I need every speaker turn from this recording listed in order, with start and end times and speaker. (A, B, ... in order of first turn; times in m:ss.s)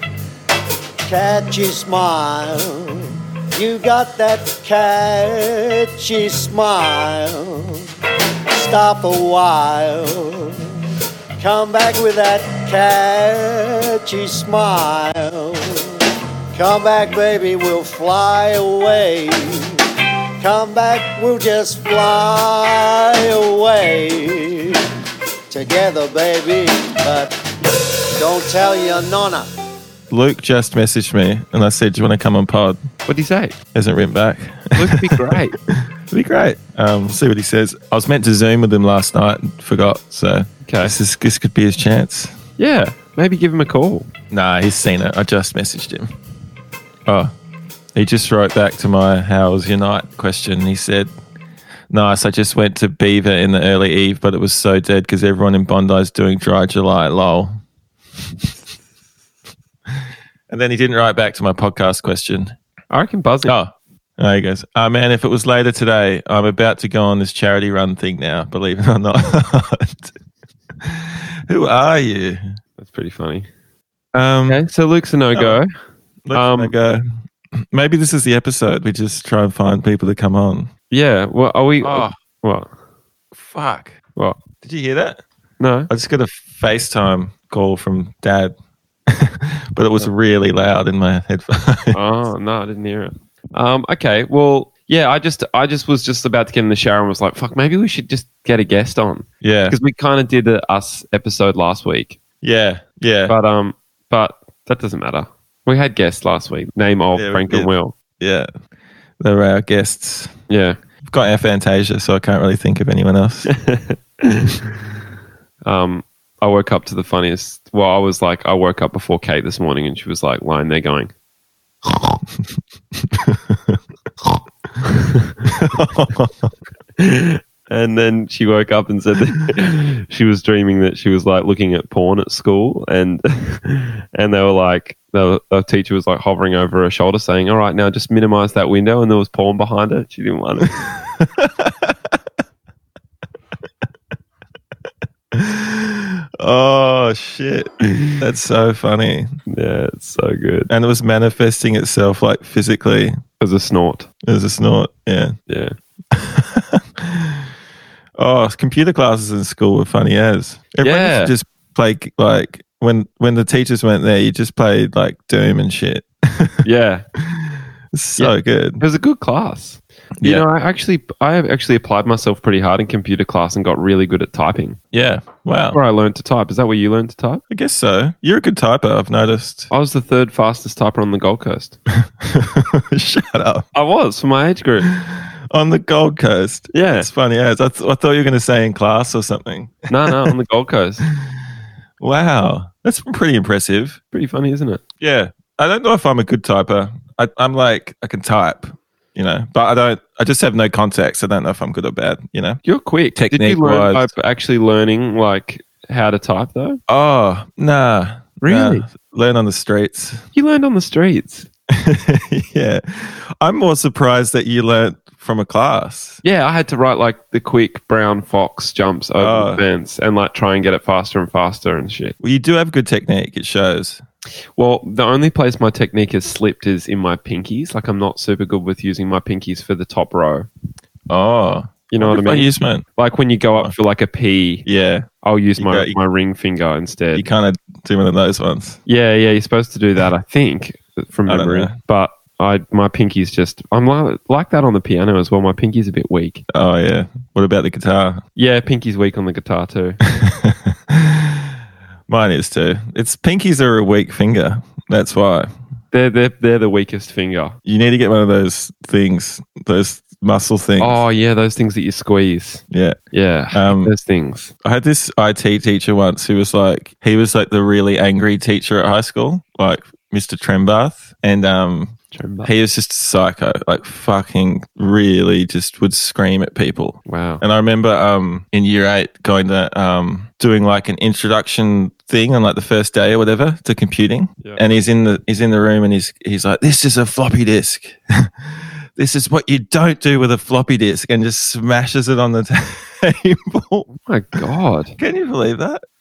0:01.1-0:07.8 A
0:08.5-0:10.7 A
0:11.4-0:19.8 A
0:20.4-0:24.8 A
0:25.5-0:29.5 A
0:30.1-0:32.8 B
0:33.1-0:33.6 C
0:33.7-0:42.3 B
0:34.8-0:35.6 C
0:40.6-0:41.0 C
0:42.6-0:44.1 C
0:44.3-0:46.1 B
0:47.1-0:47.3 B
0:48.0-0:51.1 B
0:51.9-0:57.5 B
1:00.5-1:02.6 B
1:02.9-1:03.5 C
1:03.5-1:10.1 B
1:10.8-1:12.4 B
1:12.8-1:13.5 C
1:14.1-1:14.6 B
1:14.5-1:15.7 C
1:16.3-1:20.7 B
1:16.3-1:16.7 C
1:20.9-1:22.7 C
1:21.8-1:22.2 B
1:23.4-1:24.0 B
1:24.6-1:25.2 B
1:25.6-1:25.9 C
1:25.9-1:28.6 B
1:29.1-1:32.0 B
1:31.9-1:42.2 C
1:39.4-1:39.8 B
1:42.4-1:43.4 B
1:43.3-1:48.0 C
1:47.2-1:48.5 B
1:49.2-1:50.4 B
1:50.5-1:50.8 C
1:51.0-1:53.5 B
1:53.5-1:54.7 C
1:55.6-2:01.1 C
2:03.1-2:03.8 B
2:04.8-2:05.3 C
2:05.4-2:06.5 B
2:07.0-2:20.8 C
2:21.2-2:22.0 B
2:25.3-2:29.3 B
2:29.5-2:30.7 C
2:30.7-2:33.2 B
2:33.4-2:34.1 C
2:34.2-2:35.4 B
2:35.5-2:35.8 C
2:36.1-2:37.5 B
2:38.2-2:46.6 B
2:40.8-2:41.3 C
2:46.6-2:47.0 C
2:47.2-2:48.8 B
2:48.2-2:54.8 C
2:50.2-2:50.4 B
2:54.9-2:55.8 B
2:55.7-2:57.4 C
2:57.5-2:59.7 B
2:59.7-3:01.8 C
3:02.0-3:03.7 B
3:03.7-3:04.9 C
3:04.9-3:10.3 B
3:06.7-3:07.1 C
3:09.9-3:11.0 C
3:12.0-3:14.0 B
3:14.1-3:14.8 C
3:15.0-3:22.6 B
3:22.6-3:26.8 C
3:23.2-3:24.1 B
3:26.9-3:30.2 B
3:28.4-3:28.8 C
3:30.3-3:31.5 C
3:31.7-3:36.2 B
3:36.2-3:42.2 C
3:39.2-3:39.6 B
3:42.2-3:44.0 B
3:44.6-3:50.5 C
3:51.1-3:52.8 B
3:51.9-3:54.6 C
3:54.6-3:56.0 B
3:55.2-3:57.2 C
3:57.1-3:58.8 B
3:58.9-4:06.4 C
4:01.3-4:01.7 B
4:06.5-4:08.2 B
4:08.4-4:10.0 C
4:10.1-4:11.5 B
4:12.1-4:15.5 B
4:15.9-4:17.6 C
4:17.7-4:21.0 B
4:20.8-4:24.5 C
4:22.7-4:23.0 B
4:23.5-4:23.9 B
4:24.6-4:53.9 B
4:32.1-4:32.5 C
4:37.1-4:37.4 C
4:53.9-4:55.0 C
4:55.0-4:55.8 B